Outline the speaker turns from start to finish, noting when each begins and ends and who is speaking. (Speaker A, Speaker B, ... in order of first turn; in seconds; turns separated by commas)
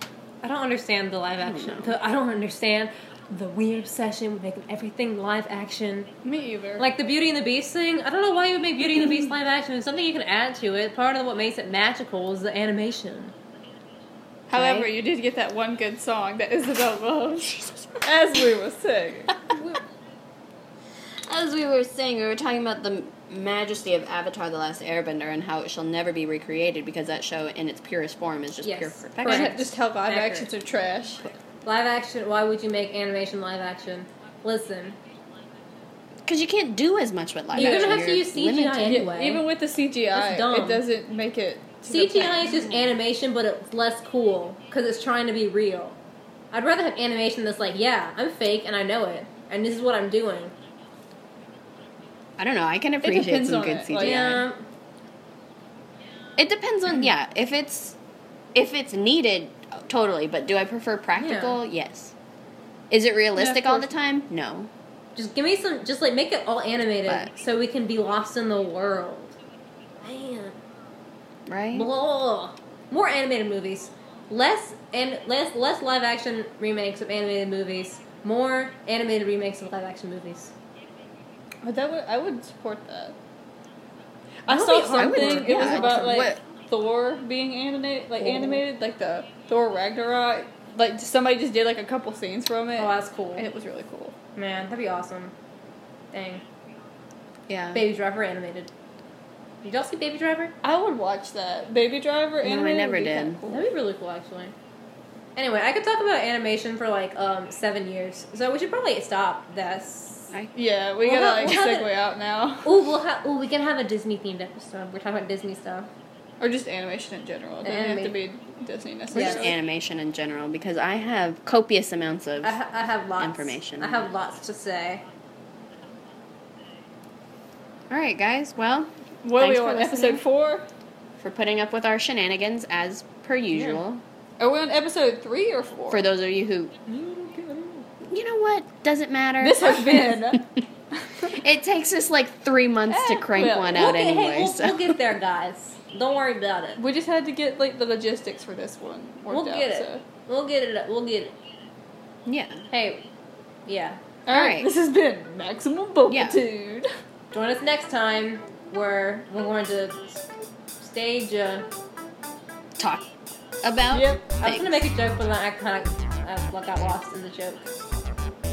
Speaker A: 0.4-6.1, Speaker B: 1.4-1.9, Speaker C: 6.2-6.8, Speaker A: 6.8-13.3, Speaker C: 14.5-19.4, Speaker B: 14.5-14.9, Speaker B: 21.3-29.6, Speaker A: 28.6-30.5, Speaker C: 29.2-31.2, Speaker A: 31.6-35.0, Speaker B: 36.2-39.1, Speaker A: 37.5-39.4, Speaker C: 37.6-38.0, Speaker C: 38.8-42.5, Speaker A: 40.1-40.8, Speaker A: 41.9-46.0, Speaker B: 42.4-42.8, Speaker A: 46.5-50.5, Speaker B: 52.4-54.5, Speaker C: 53.0-54.3, Speaker A: 54.0-54.6, Speaker B: 56.4-58.0, Speaker B: 58.5-62.1, Speaker A: 61.2-61.6, Speaker B: 62.9-64.7, Speaker A: 63.3-63.9, Speaker A: 65.2-69.3, Speaker A: 70.0-70.6, Speaker B: 71.5-71.9, Speaker A: 71.7-80.5, Speaker C: 81.6-83.1, Speaker C: 84.5-94.1, Speaker A: 84.5-86.1, Speaker B: 84.9-86.4, Speaker A: 88.2-88.6, Speaker A: 92.8-93.4, Speaker A: 94.3-95.3, Speaker A: 96.1-96.4, Speaker B: 97.5-97.8, Speaker A: 97.7-98.7, Speaker A: 99.6-100.5, Speaker C: 100.6-103.7, Speaker B: 102.4-103.4, Speaker A: 103.5-104.5, Speaker A: 105.3-110.3, Speaker C: 110.5-112.7, Speaker A: 111.0-111.9, Speaker A: 112.6-115.9, Speaker C: 116.4-119.5, Speaker A: 117.6-118.1, Speaker A: 119.1-119.5, Speaker B: 119.1-122.5, Speaker A: 122.4-125.0, Speaker B: 123.2-124.1, Speaker B: 127.9-130.2, Speaker C: 129.2-130.7, Speaker B: 131.2-134.0, Speaker C: 134.4-136.0, Speaker B: 135.9-136.7, Speaker A: 136.9-137.8, Speaker B: 138.0-140.6, Speaker C: 139.4-140.4, Speaker B: 141.3-144.9, Speaker C: 142.9-143.8, Speaker A: 143.6-146.8, Speaker C: 146.8-150.0, Speaker A: 149.3-151.3, Speaker B: 152.2-152.6, Speaker A: 152.7-153.1, Speaker A: 153.7-154.0, Speaker C: 154.3-156.9, Speaker B: 154.3-154.7, Speaker B: 156.1-156.4, Speaker A: 157.3-160.2, Speaker A: 160.8-161.7, Speaker B: 162.8-163.1, Speaker B: 163.6-164.8, Speaker C: 163.9-164.2, Speaker A: 164.4-167.7